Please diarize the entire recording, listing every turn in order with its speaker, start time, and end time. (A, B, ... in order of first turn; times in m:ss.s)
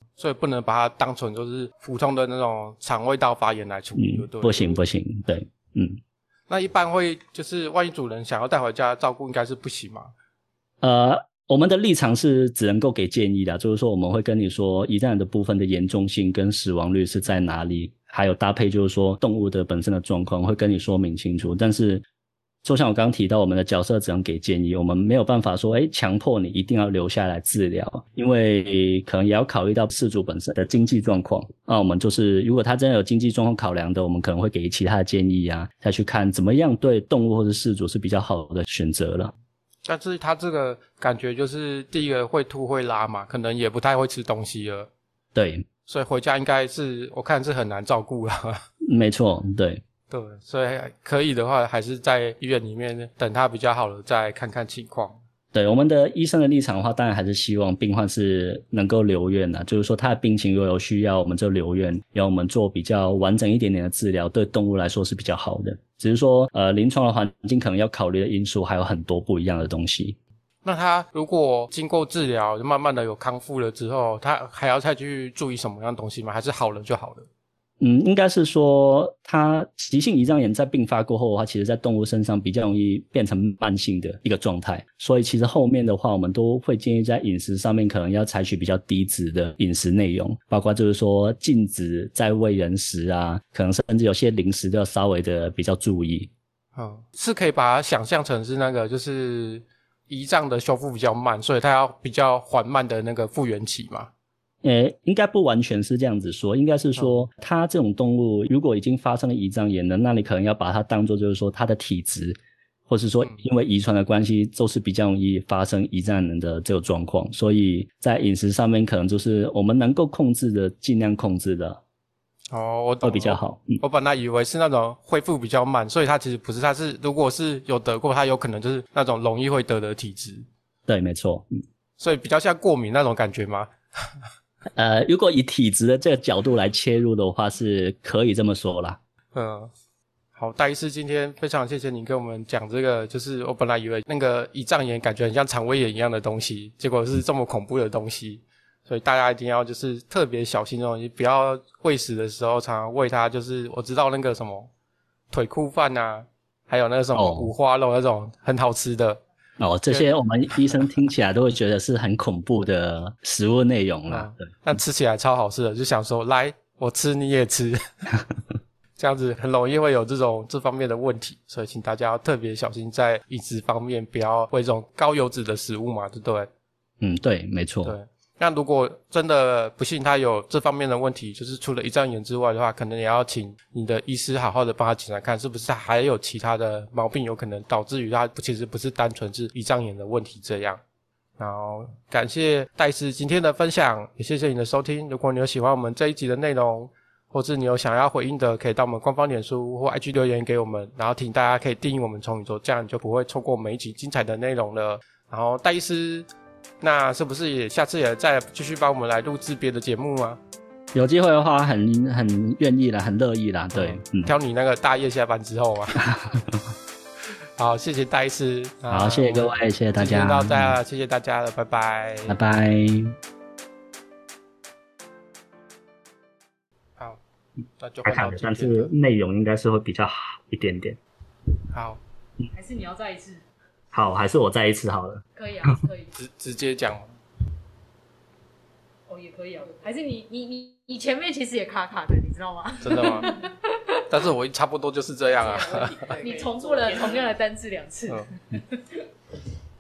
0:00.2-0:04.8 A
0:04.0-0:06.0 B
0:06.5-0:10.1 A
0:10.8-0:22.0 B
0:22.6-0:39.3 B
0:39.8-0:44.9 A
0:45.4-0:45.7 B
0:45.9-0:48.6 A
0:48.9-0:49.8 B
0:50.1-0:55.2 A
0:55.5-1:10.2 B
1:10.6-1:17.3 A
1:17.8-1:36.3 B
1:36.8-1:44.1 A
1:44.6-2:01.8 B
1:47.0-1:47.2 A
2:02.5-2:10.5 A
2:03.0-2:03.8 B
2:10.9-2:11.5 B
2:12.0-2:14.1 A
2:14.8-2:19.0 B
2:19.3-2:19.7 A
2:20.4-2:34.7 A
2:35.3-2:39.2 A
2:37.2-2:37.5 B
2:39.6-2:44.5 B
2:44.1-2:47.8 A
2:49.0-2:56.5 A
2:57.0-2:58.0 B
2:57.8-3:10.8 A
3:11.4-3:26.3 A
3:26.8-3:30.4 A
3:30.9-3:34.3 B
3:33.7-3:36.1 A
3:36.0-3:36.6 B
3:37.6-3:42.4 A
3:38.9-3:40.8 B
3:42.3-3:43.2 B
3:47.8-3:48.9 A
3:48.0-3:51.0 B
3:51.7-3:52.0 A
3:52.5-3:53.4 C
3:53.9-3:55.7 B
3:55.4-3:56.1 C
3:56.2-3:57.1 A
3:59.1-4:03.8 C
4:02.8-4:03.4 A
4:04.1-4:06.5 A
4:05.4-4:09.1 C